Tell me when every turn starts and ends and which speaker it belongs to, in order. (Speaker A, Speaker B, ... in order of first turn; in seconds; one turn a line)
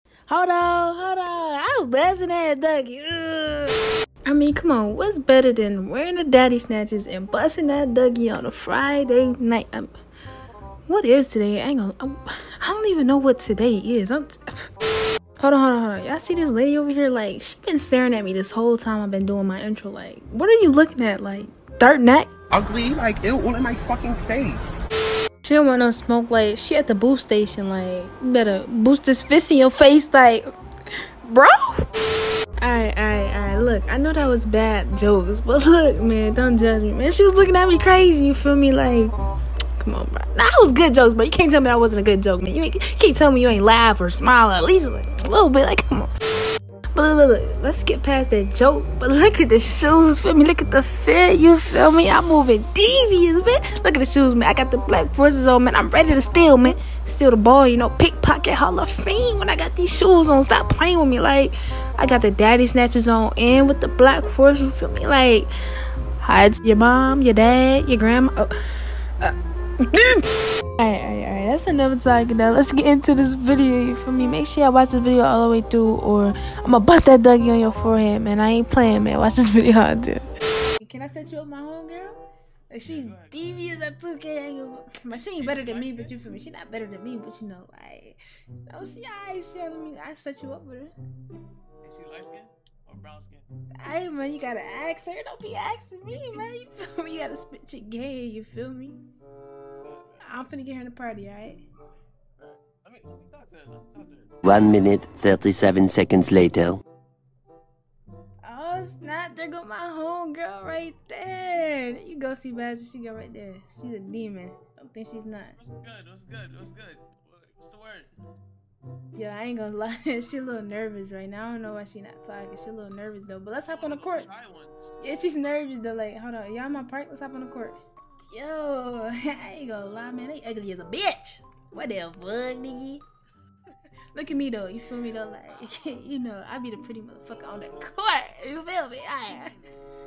Speaker A: 0.3-9.9
Speaker A: 10.9-14.7
Speaker A: 15.4-22.3
Speaker B: 22.5-24.6
Speaker A: 25.4-30.4
Speaker A: 31.2-31.9
Speaker A: 32.6-39.1
Speaker A: 39.8-46.1
Speaker A: 46.9-65.5
Speaker A: 66.2-68.5
Speaker A: 69.2-70.2
Speaker A: 70.8-80.2
Speaker C: 80.3-80.7
Speaker A: 80.8-82.2
Speaker A: 82.7-88.2
Speaker C: 82.8-83.7
Speaker C: 85.4-86.3
Speaker A: 88.7-90.9
Speaker C: 91.8-93.5
Speaker A: 93.8-99.0
Speaker C: 99.8-100.3
Speaker A: 100.2-101.6
Speaker C: 102.4-104.4
Speaker D: 104.4-106.8
Speaker A: 108.4-115.5
Speaker C: 115.4-118.1
Speaker A: 119.1-124.3
Speaker C: 123.7-124.9
Speaker A: 125.0-133.0
Speaker A: 134.1-139.5
Speaker C: 135.5-136.0
Speaker C: 137.3-137.9
Speaker C: 138.9-139.7